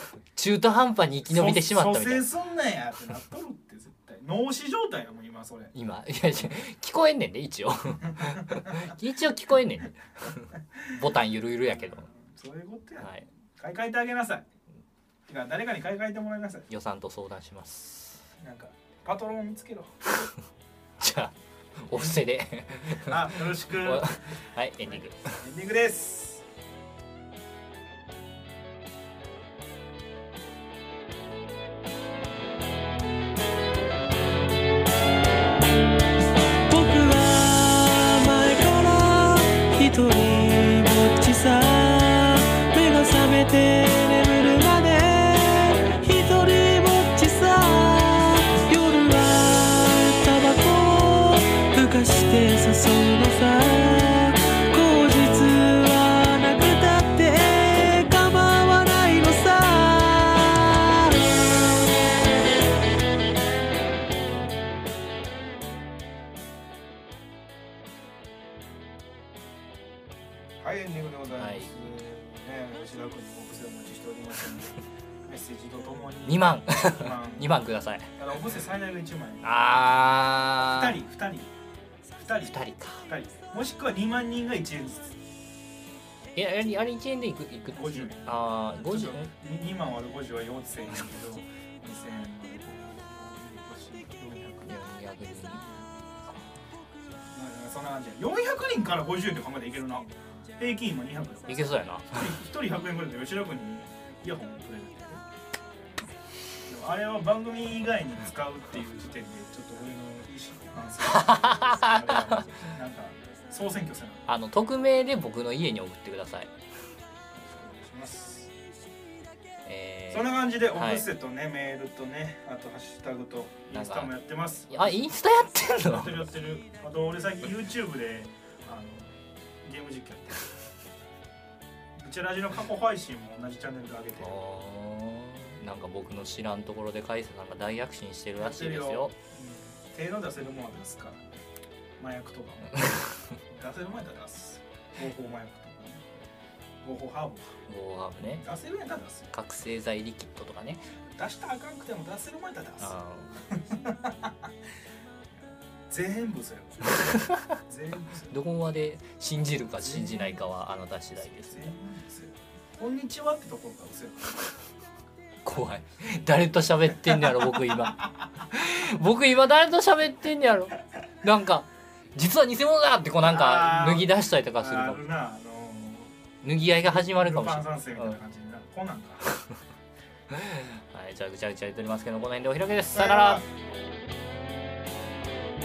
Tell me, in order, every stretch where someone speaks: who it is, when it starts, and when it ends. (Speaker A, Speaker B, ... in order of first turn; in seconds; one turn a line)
Speaker A: 0.3-2.3
Speaker B: 1.3-5.7
Speaker A: 5.7-12.1
Speaker B: 8.3-8.9
Speaker B: 11.7-14.4
Speaker A: 13.0-13.3
Speaker B: 15.3-16.7
Speaker A: 16.7-18.2
Speaker B: 18.4-20.0
Speaker A: 21.0-25.4
Speaker B: 21.9-22.2
Speaker B: 22.9-24.2
Speaker B: 24.8-26.4
Speaker C: 36.7-61.3
Speaker B: 70.6-79.7
Speaker A: 71.3-71.7
Speaker A: 76.3-78.1
Speaker A: 79.4-81.0
Speaker B: 80.5-81.5
Speaker B: 82.2-85.2
Speaker A: 82.4-83.1
Speaker A: 86.3-89.3
Speaker B: 87.7-94.8
Speaker A: 94.7-95.6
Speaker B: 95.6-96.5
Speaker B: 97.2-105.2
Speaker A: 101.5-102.3
Speaker B: 106.7-114.2
Speaker A: 111.0-112.4
Speaker A: 114.3-116.5
Speaker B: 117.3-118.5
Speaker A: 119.7-121.1
Speaker B: 120.1-125.0
Speaker A: 123.7-124.1
Speaker A: 124.7-126.3
Speaker B: 125.8-130.5
Speaker B: 132.0-134.4
Speaker A: 134.2-139.2
Speaker B: 138.4-141.4
Speaker B: 142.0-146.0
Speaker B: 146.8-147.6
Speaker A: 147.7-148.4
Speaker B: 148.4-149.3
Speaker A: 149.3-150.9
Speaker B: 150.9-154.4
Speaker A: 152.8-153.3
Speaker B: 155.9-158.3
Speaker A: 157.0-157.5
Speaker A: 158.3-161.7
Speaker B: 159.8-160.4
Speaker B: 161.3-164.5
Speaker A: 165.4-175.0
Speaker B: 173.2-176.2
Speaker A: 176.4-178.2
Speaker B: 176.7-179.3
Speaker A: 180.3-183.4
Speaker B: 182.9-183.5